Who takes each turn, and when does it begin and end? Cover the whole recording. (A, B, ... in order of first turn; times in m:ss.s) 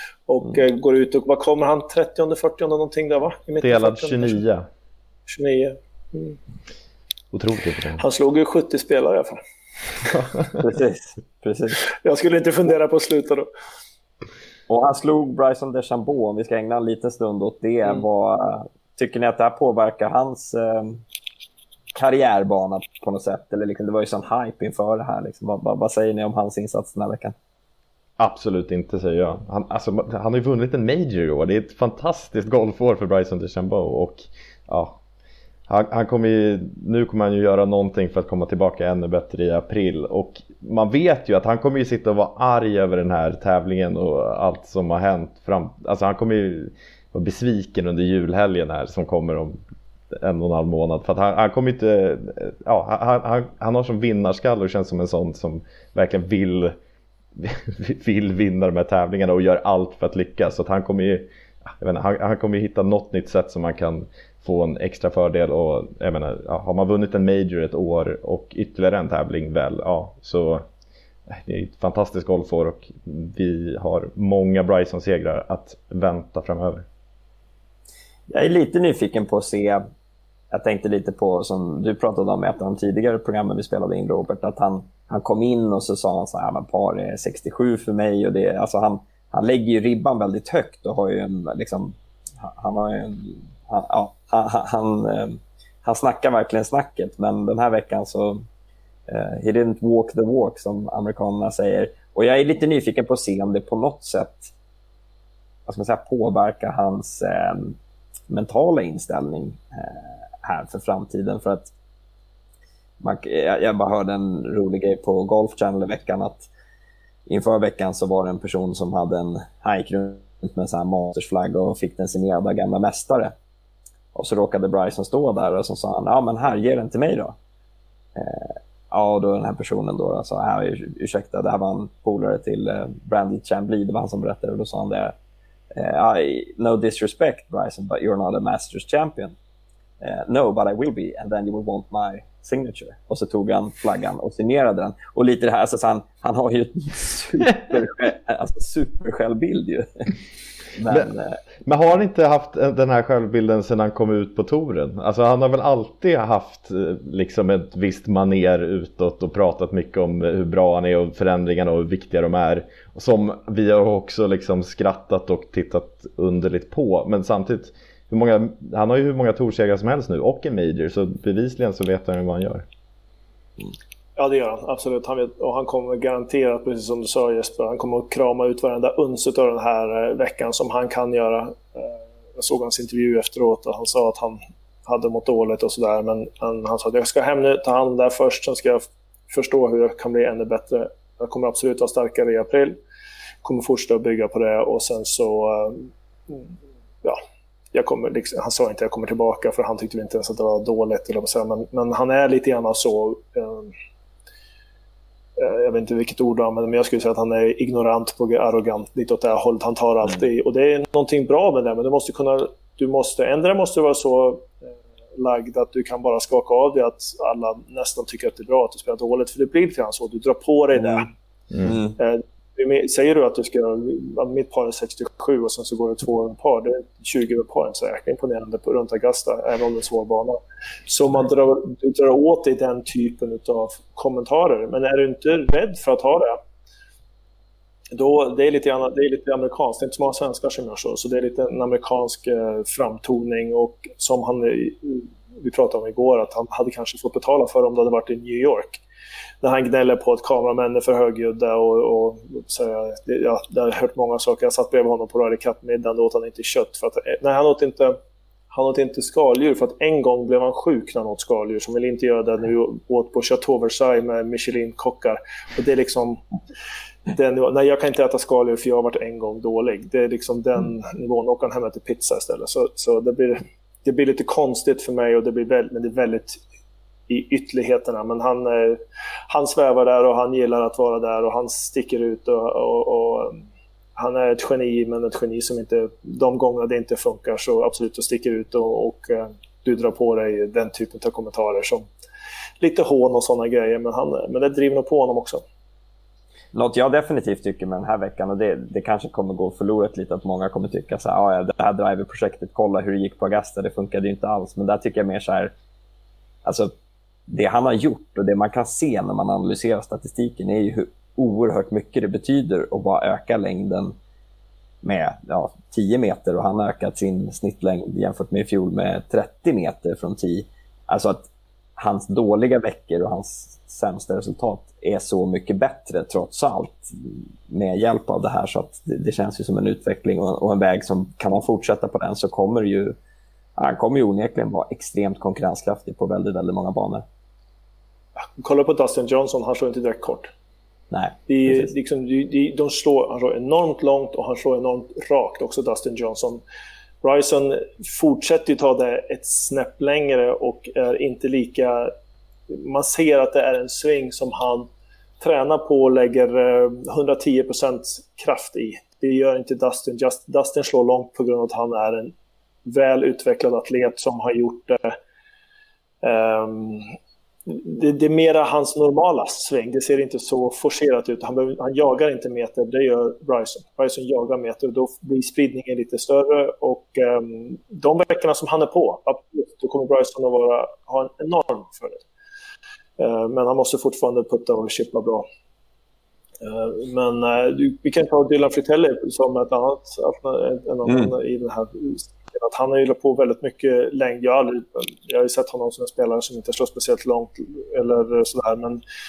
0:00.3-0:04.4 A
0:03.6-0:04.6 B
0:05.3-0:06.4 A
0:07.3-0:08.0 B
0:08.0-0:09.4 A
0:10.6-0:11.8 C
0:12.0-0:13.5 A
0:14.7-0:21.0 C
0:21.9-0:27.3 C
0:28.2-0:35.0 B
0:35.7-0:49.6 B
0:50.1-0:56.7 B
0:57.4-1:10.6 B
1:11.4-1:16.8 B
1:18.3-1:19.8 C
1:20.5-1:38.4 C
1:39.1-1:44.5 C
1:45.6-1:47.8 C
1:48.3-1:51.7 C
1:53.0-1:56.5 C
1:57.3-2:03.3 C
2:04.1-2:07.4 C
2:08.2-2:15.1 C
2:15.7-2:19.4 C
2:20.0-2:30.1 C
2:30.8-2:31.4 C
2:31.6-2:52.6 B
2:54.2-3:12.8 A
3:13.4-3:16.4 A
3:17.7-3:23.7 A
3:25.4-3:34.5 A
3:35.2-3:41.1 A
3:41.6-3:42.0 C
3:42.0-3:56.4 A
3:57.9-4:08.8 A
4:09.4-4:18.0 A
4:18.5-4:26.2 A
4:27.1-4:36.4 A
4:37.1-4:43.4 A
4:44.0-4:51.9 A
4:52.6-4:55.4 A
4:56.5-5:05.5 C
5:06.4-5:06.7 C
5:07.3-5:14.0 C
5:14.8-5:32.9 C
5:33.6-5:37.0 C
5:38.2-5:40.3 A
5:40.9-5:41.7 C
5:41.3-5:46.4 A
5:47.0-5:51.9 A
5:52.5-5:54.7 A
5:55.2-6:02.1 A
6:02.6-6:05.0 A
6:06.0-6:06.8 A
6:07.5-6:22.0 A
6:23.0-6:25.2 A
6:26.4-6:38.8 A
6:30.8-6:31.1 C